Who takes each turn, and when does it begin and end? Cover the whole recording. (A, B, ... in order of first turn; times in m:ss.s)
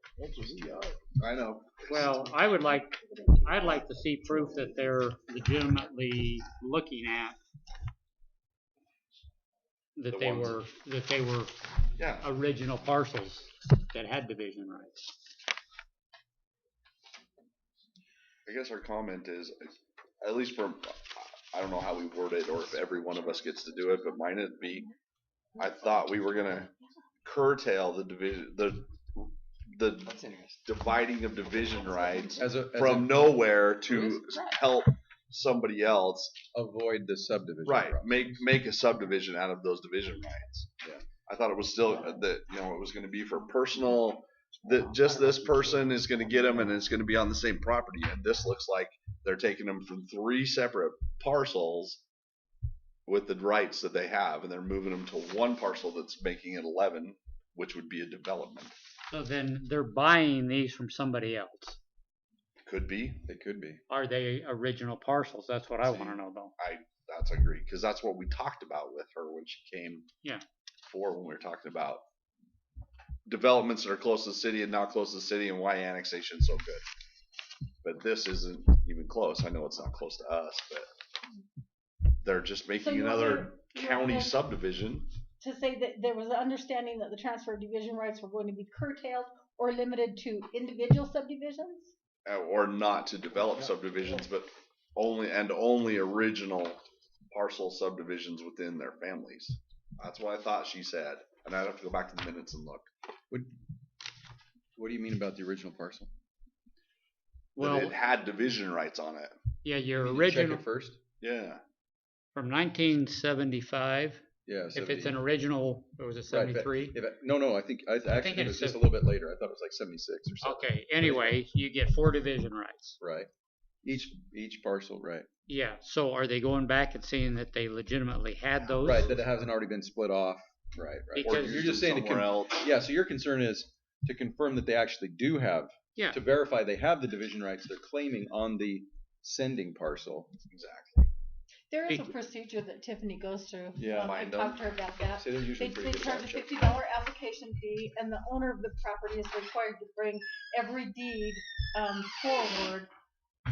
0:01.2-0:02.4 A
0:01.9-0:07.4 B
0:10.0-0:11.6 B
0:10.1-0:10.6 A
0:12.0-0:12.3 A
0:12.2-0:15.0 B
0:18.5-0:24.9 A
0:25.6-0:26.7 A
0:27.2-0:36.4 A
0:32.4-0:33.3 C
0:36.5-0:38.4 C
0:37.6-0:40.7 A
0:41.2-0:52.0 A
0:53.1-0:58.7 A
0:59.1-1:01.8 B
1:02.6-1:03.3 A
1:03.2-1:03.8 C
1:03.9-1:06.5 B
1:05.8-1:10.1 A
1:10.8-1:12.0 A
1:13.3-1:16.8 A
1:17.8-1:20.9 A
1:22.2-1:25.1 A
1:22.8-1:24.4 D
1:25.4-1:31.9 D
1:32.3-1:42.9 A
1:44.8-1:46.1 C
1:47.6-1:48.0 B
1:47.6-1:49.3 A
1:49.6-1:50.6 B
1:50.0-1:51.0 C
1:51.2-1:51.6 A
1:52.4-1:54.2 B
1:54.5-1:55.2 C
1:54.7-1:57.0 B
1:56.3-2:01.4 C
1:58.1-1:58.8 B
2:00.4-2:03.0 B
2:03.0-2:03.3 C
2:03.8-2:05.3 C
2:05.5-2:09.2 B
2:08.8-2:20.3 C
2:11.1-2:11.7 B
2:11.2-2:12.7 A
2:20.5-2:21.1 A
2:21.7-2:32.9 D
2:23.8-2:24.2 C
2:24.0-2:24.6 A
2:25.2-2:26.6 C